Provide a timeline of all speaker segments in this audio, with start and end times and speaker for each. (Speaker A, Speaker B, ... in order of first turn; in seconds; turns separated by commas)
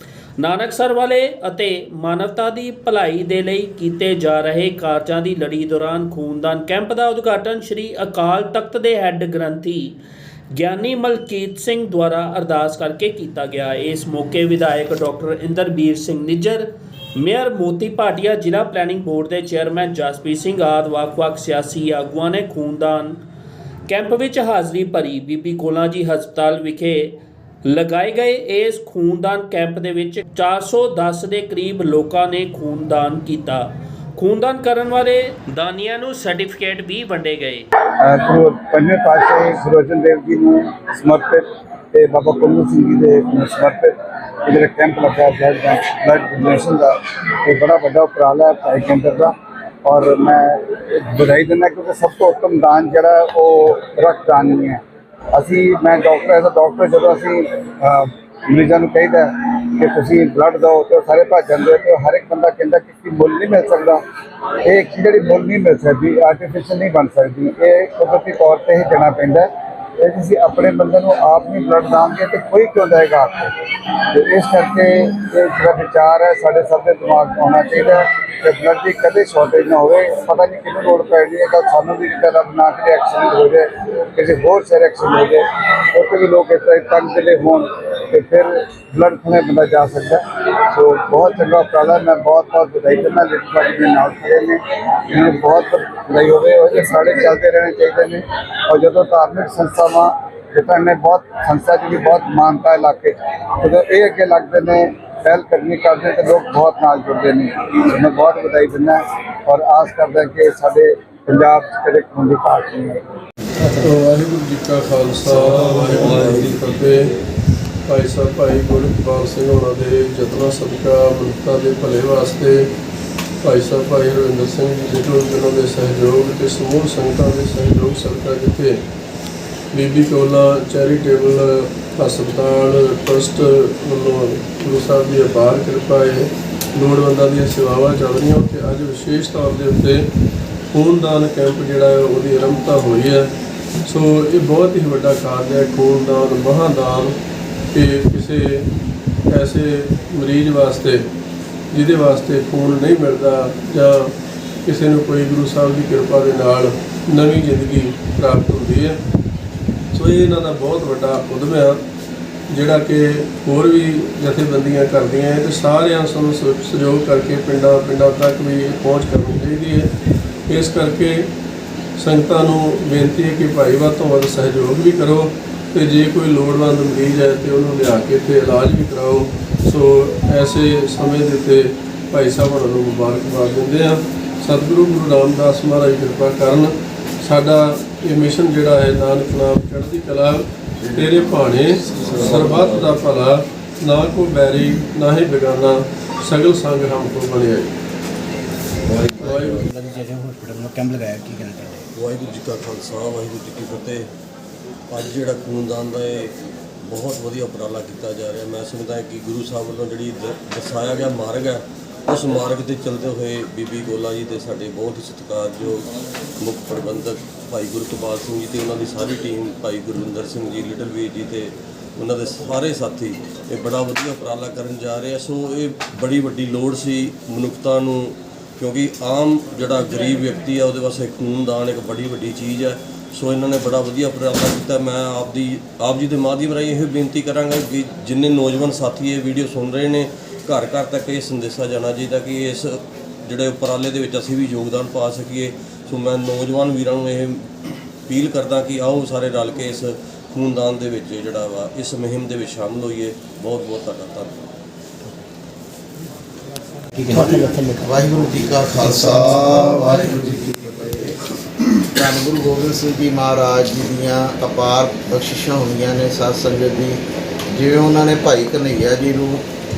Speaker A: 0.4-10.0, Speaker A: 10.5-23.2, Speaker A: 23.9-37.7, Speaker B: 38.0-43.9, Speaker B: 44.4-54.8, Speaker B: 55.3-64.0, Speaker B: 64.6-69.5, Speaker B: 70.0-73.5, Speaker B: 74.1-113.0, Speaker C: 113.6-117.1, Speaker D: 115.3-117.2, Speaker C: 117.9-122.7, Speaker C: 123.4-128.8, Speaker C: 129.7-140.1, Speaker C: 140.7-143.3, Speaker C: 143.8-147.2, Speaker C: 147.7-148.7, Speaker C: 149.3-151.0, Speaker C: 151.7-159.0, Speaker C: 159.9-161.8, Speaker C: 162.5-169.9, Speaker C: 170.5-171.3, Speaker C: 172.0-197.7, Speaker D: 190.8-193.1, Speaker D: 198.8-199.7, Speaker C: 199.2-199.7, Speaker E: 199.7-201.8, Speaker D: 201.9-204.1, Speaker D: 204.9-254.4, Speaker E: 256.9-257.9, Speaker F: 257.1-261.2, Speaker F: 261.9-269.4